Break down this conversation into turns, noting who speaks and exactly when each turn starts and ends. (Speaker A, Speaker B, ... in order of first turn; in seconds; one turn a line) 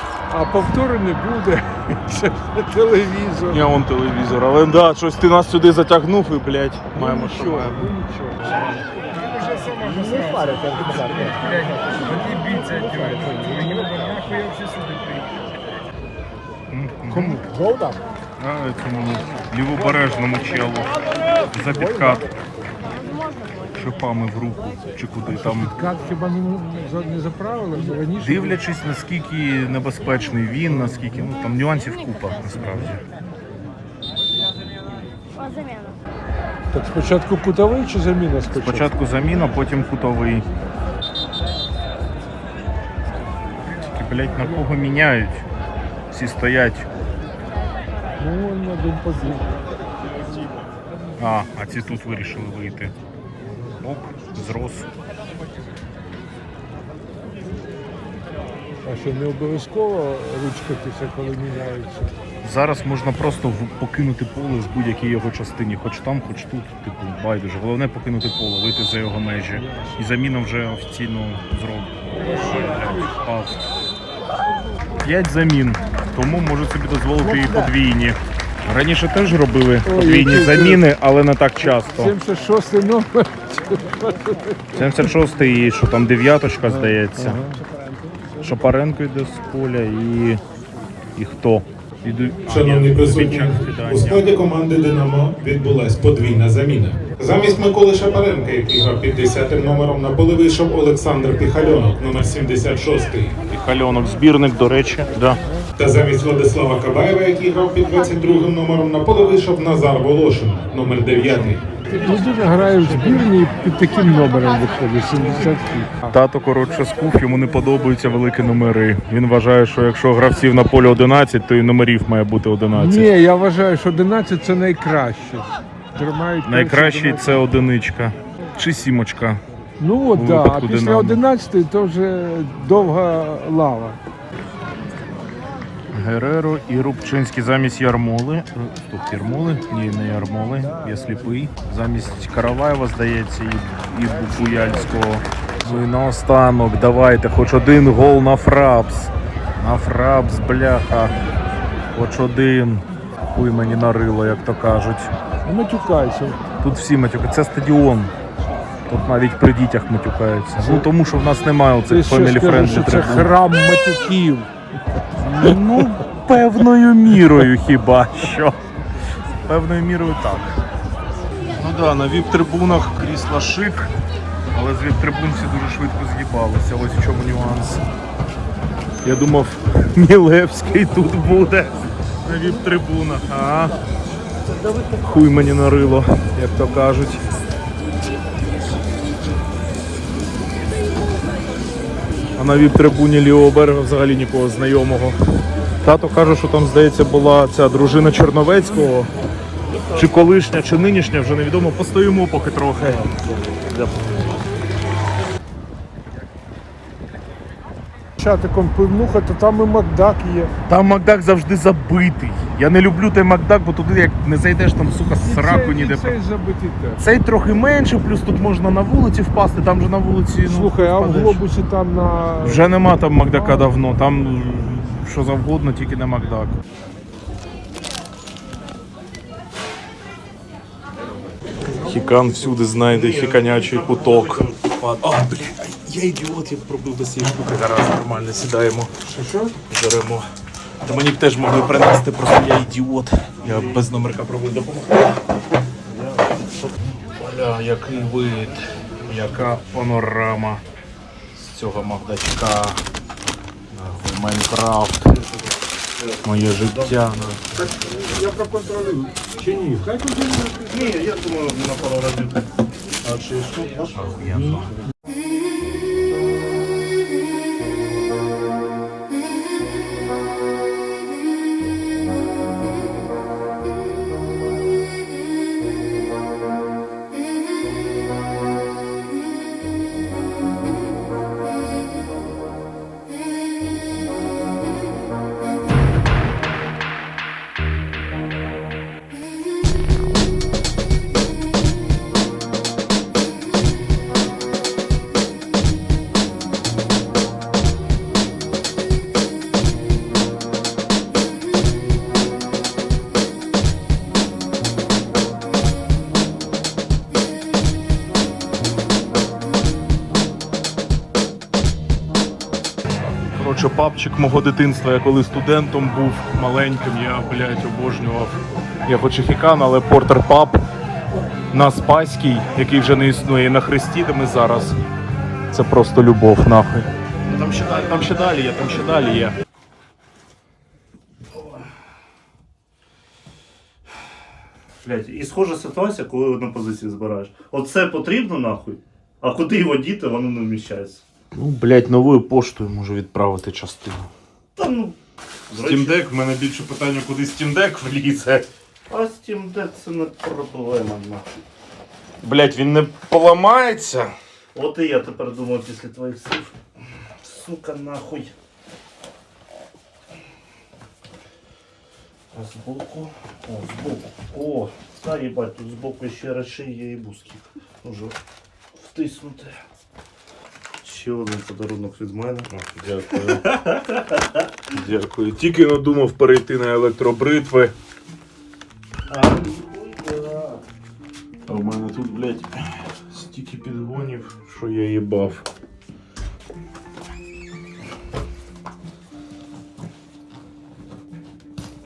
Speaker A: 0.3-3.6
Speaker B: 3.5-7.9
Speaker A: 6.9-13.7
Speaker B: 10.5-14.1
Speaker C: 11.8-12.8
Speaker C: 13.8-15.2
Speaker B: 16.7-17.4
Speaker A: 17.1-18.0
Speaker B: 18.4-20.9
Speaker B: 21.5-22.3
Speaker B: 23.7-25.7
Speaker A: 25.3-28.6
Speaker B: 28.2-33.0
Speaker A: 36.7-38.9
Speaker B: 38.5-40.5
Speaker B: 43.8-45.5
Speaker B: 46.1-46.9
Speaker A: 48.2-49.5
Speaker B: 51.2-52.9
Speaker B: 53.8-54.9
Speaker A: 58.9-62.1
Speaker B: 62.4-73.7
Speaker A: 69.7-69.9
Speaker A: 72.4-72.7
Speaker B: 75.0-82.2
Speaker A: 77.2-77.7
Speaker A: 79.9-80.8
Speaker A: 81.9-85.1
Speaker B: 84.8-87.4
Speaker A: 86.7-87.6
Speaker B: 88.4-90.4
Speaker B: 91.2-94.5
Speaker C: 92.5-103.4
Speaker B: 103.5-105.4
Speaker C: 105.8-111.6
Speaker A: 111.9-116.1
Speaker B: 116.1-123.1
Speaker A: 122.7-127.5
Speaker B: 126.5-129.4
Speaker A: 129.8-134.0
Speaker B: 130.2-131.2
Speaker B: 135.9-151.1
Speaker B: 151.9-155.1
Speaker A: 155.4-156.4
Speaker B: 156.6-158.1
Speaker B: 158.9-163.3
Speaker A: 160.6-160.9
Speaker A: 161.9-164.5
Speaker B: 165.2-168.6
Speaker A: 165.4-165.8
Speaker B: 169.5-170.6
Speaker B: 171.5-173.9
Speaker B: 174.5-177.8
Speaker B: 179.0-183.8
Speaker B: 185.0-187.2
Speaker B: 192.4-195.2
Speaker B: 195.8-199.1
Speaker D: 199.7-200.1
Speaker B: 199.9-203.0
Speaker D: 202.8-204.4
Speaker A: 208.2-210.5
Speaker B: 210.7-216.2
Speaker A: 215.2-217.0
Speaker B: 217.0-221.4
Speaker A: 220.5-222.7
Speaker B: 222.4-226.6
Speaker A: 223.3-223.7
Speaker B: 231.8-238.9
Speaker D: 232.7-234.6
Speaker A: 239.1-239.6
Speaker B: 239.6-240.3
Speaker B: 240.8-245.2
Speaker D: 243.5-243.8
Speaker D: 245.9-246.7
Speaker B: 247.2-250.6
Speaker B: 251.3-252.8
Speaker B: 253.7-255.1
Speaker D: 255.1-256.9
Speaker B: 256.2-257.4
Speaker A: 257.9-260.9
Speaker D: 260.7-262.5
Speaker D: 263.1-264.6
Speaker B: 263.9-264.7
Speaker B: 313.4-320.6
Speaker B: 321.5-324.7
Speaker B: 325.5-329.4
Speaker D: 334.8-341.0
Speaker B: 341.4-344.1
Speaker D: 344.6-345.0
Speaker D: 345.5-346.0
Speaker B: 345.5-348.5
Speaker D: 348.9-351.4
Speaker B: 352.2-354.1
Speaker D: 354.6-356.6
Speaker D: 357.2-358.3
Speaker D: 362.3-368.2
Speaker D: 368.7-369.6
Speaker D: 370.8-372.5
Speaker B: 372.5-373.6
Speaker D: 373.3-374.4
Speaker B: 374.7-377.7
Speaker D: 379.1-380.6
Speaker B: 381.5-385.4